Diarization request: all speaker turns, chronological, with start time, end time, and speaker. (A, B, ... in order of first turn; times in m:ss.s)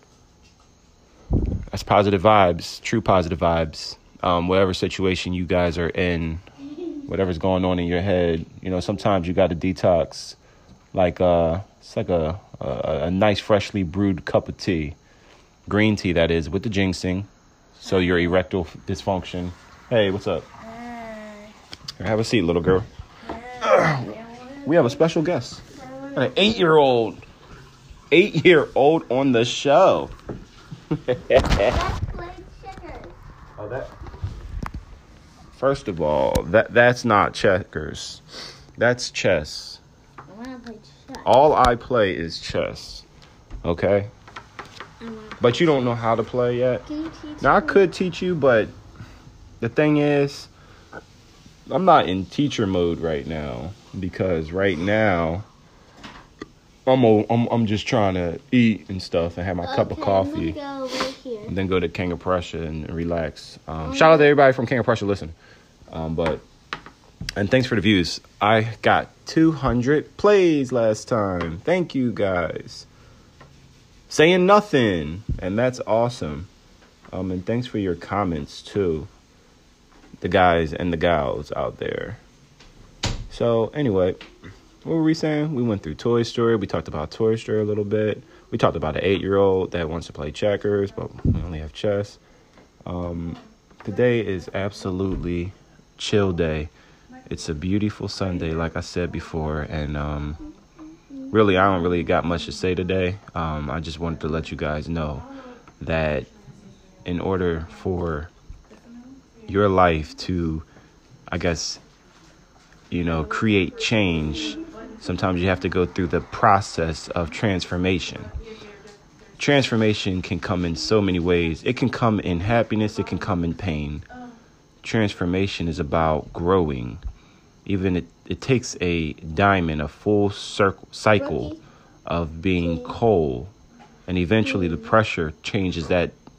0:01.7-0:06.4 A
0:07.1-0:10.4 A
0:10.9-0:15.0 A
0:15.7-0:20.5 A
0:20.8-0:21.5 B
0:22.0-0:22.9 A
0:23.5-0:24.1 B
0:23.6-0:25.6 A
0:25.8-0:26.2 B
0:26.1-0:27.2 A
0:28.1-0:30.1 A
0:30.9-0:31.8 A
0:31.6-0:33.2 B
0:33.6-0:33.9 A
0:35.5-0:38.2 A
0:38.8-0:39.8 A
0:40.3-0:41.3 B
0:41.2-0:43.1 A
0:43.6-0:44.1 A
0:45.0-0:45.5 B
0:45.4-0:46.9 A
0:46.9-0:47.8 B
0:47.4-0:48.7 A
0:49.6-0:50.5 A
0:51.7-0:55.5 A
0:56.9-1:00.6 A
0:59.6-1:01.5 B
1:01.4-1:05.4 A
1:05.9-1:06.4 A
1:07.4-1:12.9 A
1:14.1-1:16.5 A
1:17.1-1:19.1 A
1:20.2-1:22.2 A
1:23.3-1:24.2 A
1:24.8-1:32.2 A
1:32.9-1:36.7 A
1:37.3-1:40.4 A
1:41.3-1:45.3 A
1:45.8-1:46.3 A
1:47.0-1:48.3 A
1:49.5-1:50.6 A
1:51.3-1:51.8 A
1:52.9-1:58.3 A
1:59.4-2:04.0 A
2:04.8-2:07.0 A
2:07.7-2:13.5 A
2:14.1-2:16.2 A